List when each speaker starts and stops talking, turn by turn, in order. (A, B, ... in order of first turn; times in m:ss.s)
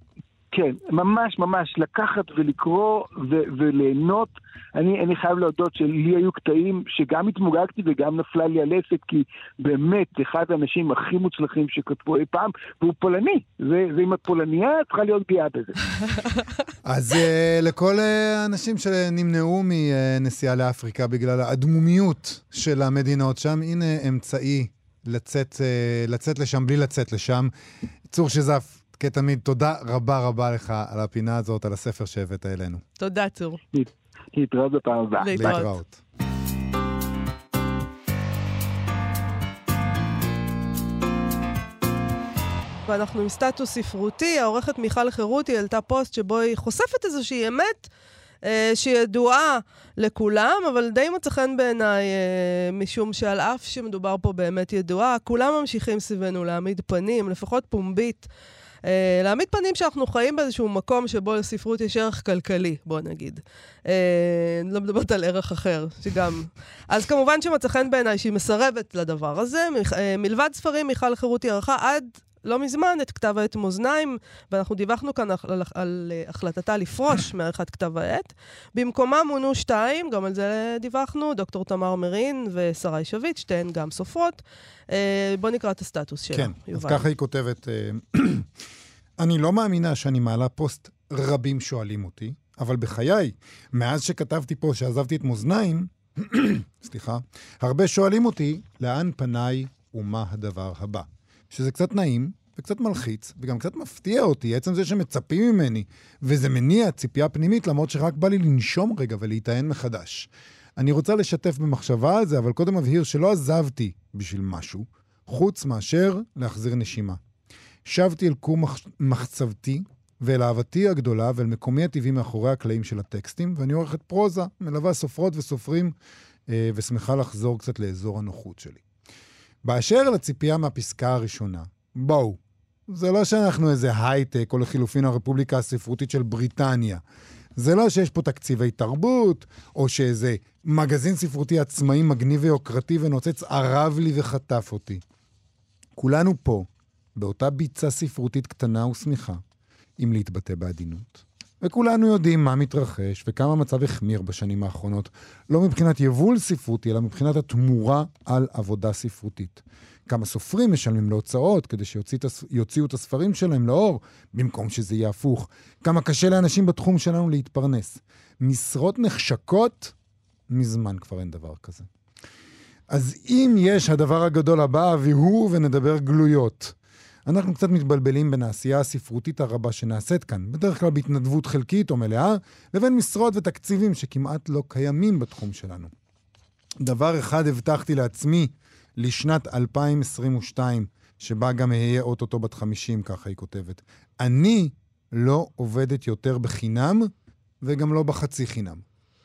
0:00.5-0:15.8 A
0:16.8-0:27.5 B
0:28.1-0:32.8 B
0:33.0-0:33.6 C
0:33.7-0:35.4 A
0:35.2-0:35.8 C
0:35.3-0:36.0 B
0:42.9-0:47.9 C
0:48.4-0:58.3 C
0:58.8-1:27.1 C
1:26.3-1:28.5 B
1:29.2-1:57.2 B
1:57.8-2:05.9 B
2:06.5-2:08.8 B
2:09.6-2:17.0 B
2:17.6-2:25.0 B
2:26.0-2:29.4 B
2:30.0-2:50.0 B
2:50.5-2:51.9 B
2:52.9-3:05.9 B
3:06.8-3:17.1 B
3:17.6-3:18.8 B